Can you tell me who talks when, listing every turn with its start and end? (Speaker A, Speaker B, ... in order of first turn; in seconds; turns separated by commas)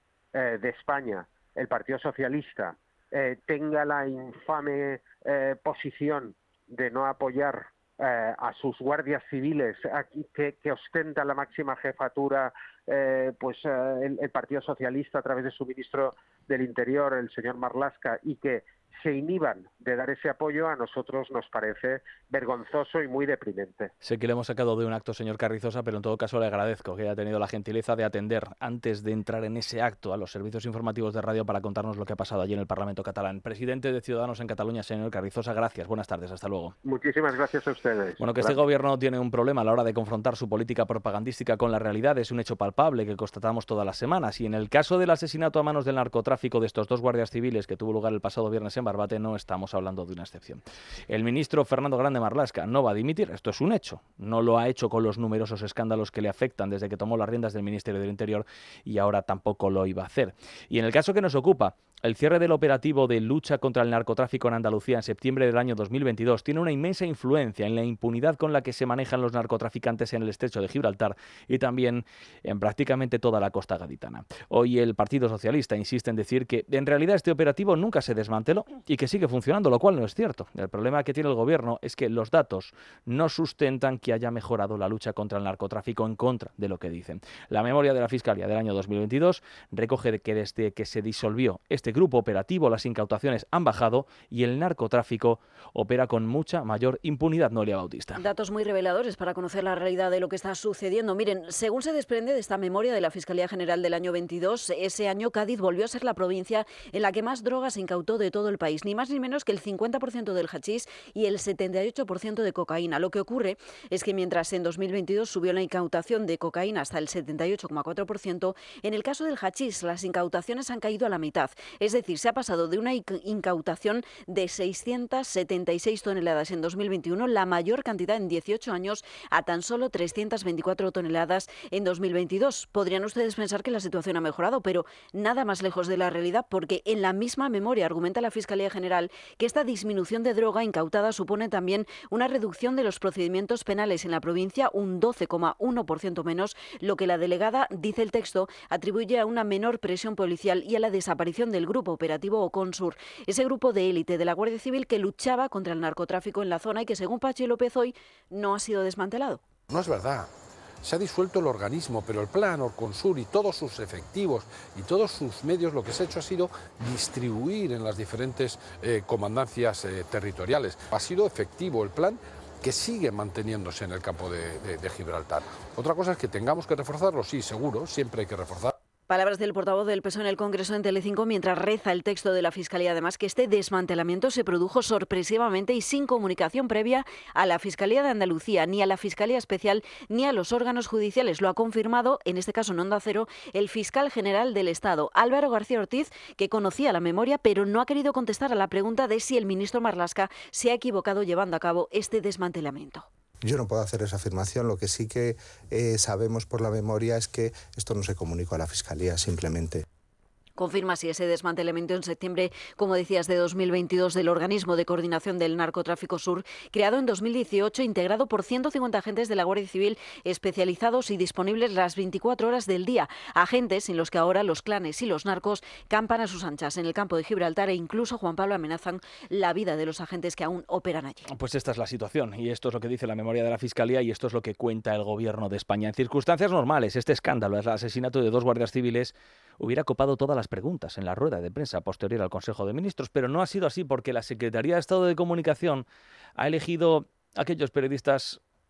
Speaker A: 0.3-23.9, Speaker B: 24.0-36.8, Speaker A: 36.8-38.6, Speaker B: 38.2-98.2, Speaker C: 98.2-159.4, Speaker D: 159.7-160.3, Speaker D: 160.8-178.7, Speaker C: 179.1-203.1, Speaker E: 203.4-209.8, Speaker C: 210.6-231.3, Speaker B: 231.3-245.8, Speaker B: 246.4-248.4